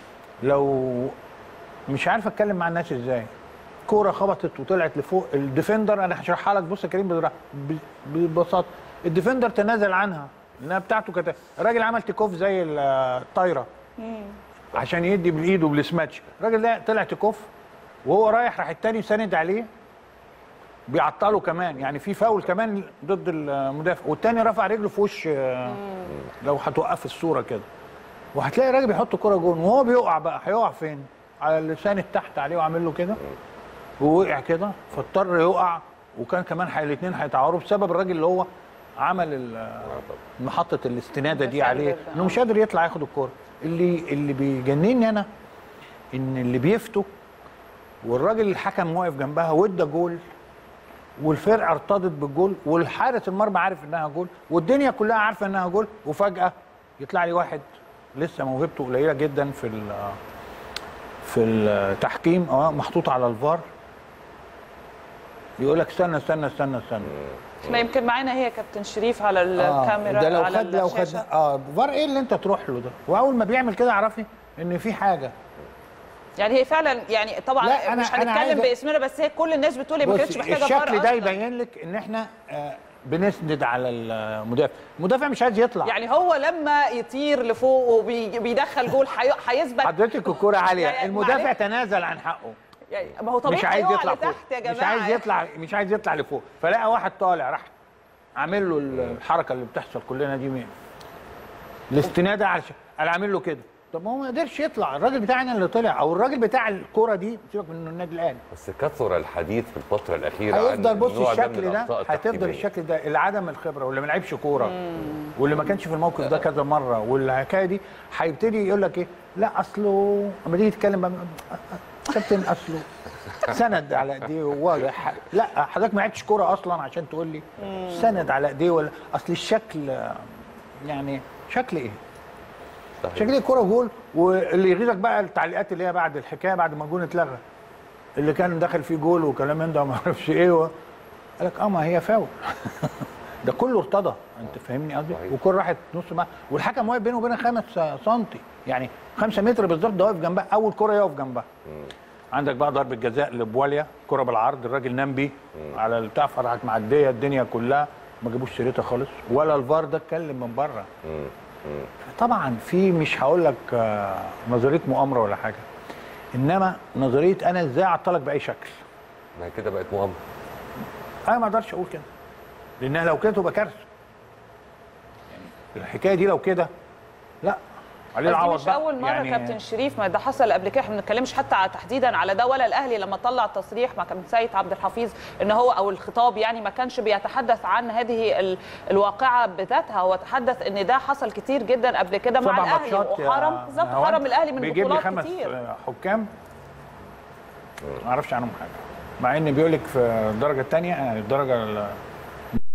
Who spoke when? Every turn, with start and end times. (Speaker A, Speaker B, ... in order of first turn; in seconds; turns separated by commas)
Speaker A: 0.4-1.1, Speaker A: 1.9-3.3, Speaker A: 3.9-13.7, Speaker A: 14.7-17.5, Speaker A: 18.0-19.7, Speaker A: 20.9-27.6, Speaker A: 28.3-33.2, Speaker A: 34.0-45.3, Speaker B: 41.3-42.4, Speaker A: 46.1-47.1, Speaker A: 48.0-50.2, Speaker A: 51.2-60.2, Speaker A: 61.2-63.6, Speaker A: 65.6-67.2, Speaker B: 67.6-71.2, Speaker A: 69.6-75.3, Speaker B: 76.4-81.4, Speaker A: 77.6-78.7, Speaker A: 80.0-85.9, Speaker B: 85.8-91.5, Speaker A: 89.8-92.6, Speaker B: 92.9-95.3, Speaker A: 93.4-97.7, Speaker A: 98.3-100.7, Speaker A: 101.9-108.4, Speaker C: 108.5-112.7, Speaker A: 110.5-130.3, Speaker B: 114.8-115.3, Speaker A: 130.8-132.0, Speaker C: 133.0-133.3, Speaker A: 133.1-137.4, Speaker A: 138.2-140.7, Speaker A: 141.4-151.5, Speaker A: 152.3-160.9, Speaker C: 161.1-161.8, Speaker A: 162.0-165.6, Speaker A: 166.3-168.8, Speaker C: 169.3-170.2, Speaker A: 171.2-172.1, Speaker A: 172.8-173.8, Speaker A: 175.6-176.7, Speaker A: 178.1-179.6, Speaker B: 178.2-195.5, Speaker A: 192.4-196.3, Speaker A: 197.9-202.0